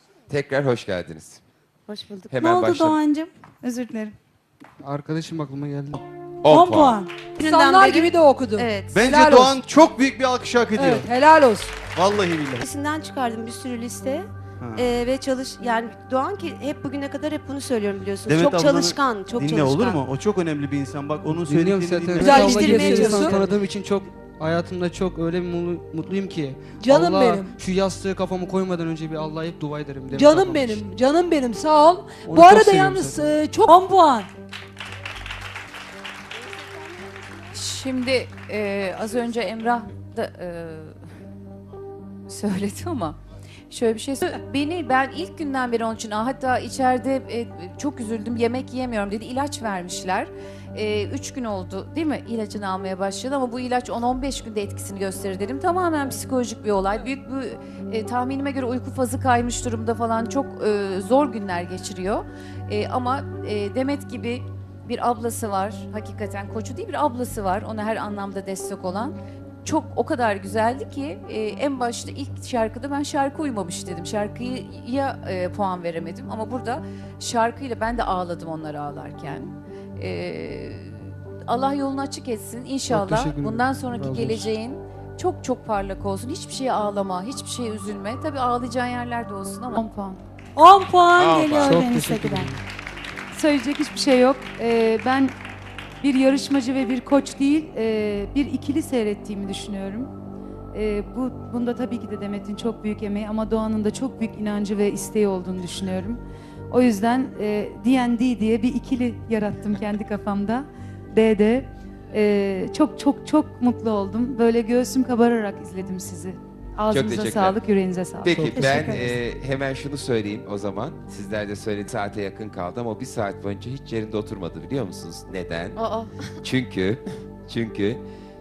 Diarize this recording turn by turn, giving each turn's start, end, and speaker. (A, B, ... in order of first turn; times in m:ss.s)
0:00.3-0:01.4 A
0:01.9-0:02.3 B
0:02.3-0:03.0 A
0:02.4-0:04.1 C
0:04.8-0:06.0 D
0:06.4-0:07.0 A
0:06.5-0:07.1 C
0:07.4-0:09.0 B
0:07.4-0:08.6 E
0:08.9-0:11.1 F
0:09.1-0:09.4 E
0:10.8-0:11.7 E
0:11.9-0:12.6 F
0:12.6-0:20.0 B
0:14.6-0:14.9 F
0:18.2-0:23.4 F
0:21.2-0:30.9 D
0:22.2-0:23.4 E
0:22.7-0:23.0 B
0:26.8-0:27.6 E
0:30.1-0:33.7 E
0:32.2-0:33.4 D
0:33.6-0:34.3 C
0:37.5-0:41.0 G
0:42.3-0:43.2 G
0:43.7-1:29.8 G
1:22.9-1:24.5 D
1:29.8-1:30.2 H
1:30.6-1:32.5 C
1:31.2-1:31.8 A
1:31.6-1:32.6 D
1:33.3-1:35.3 H
1:36.0-1:40.1 H
1:40.7-1:46.2 H
1:46.7-1:58.4 H
1:56.9-1:57.6 A
1:58.2-2:05.8 A
1:58.3-1:58.8 D
1:58.5-1:59.2 C
2:06.4-2:08.0 A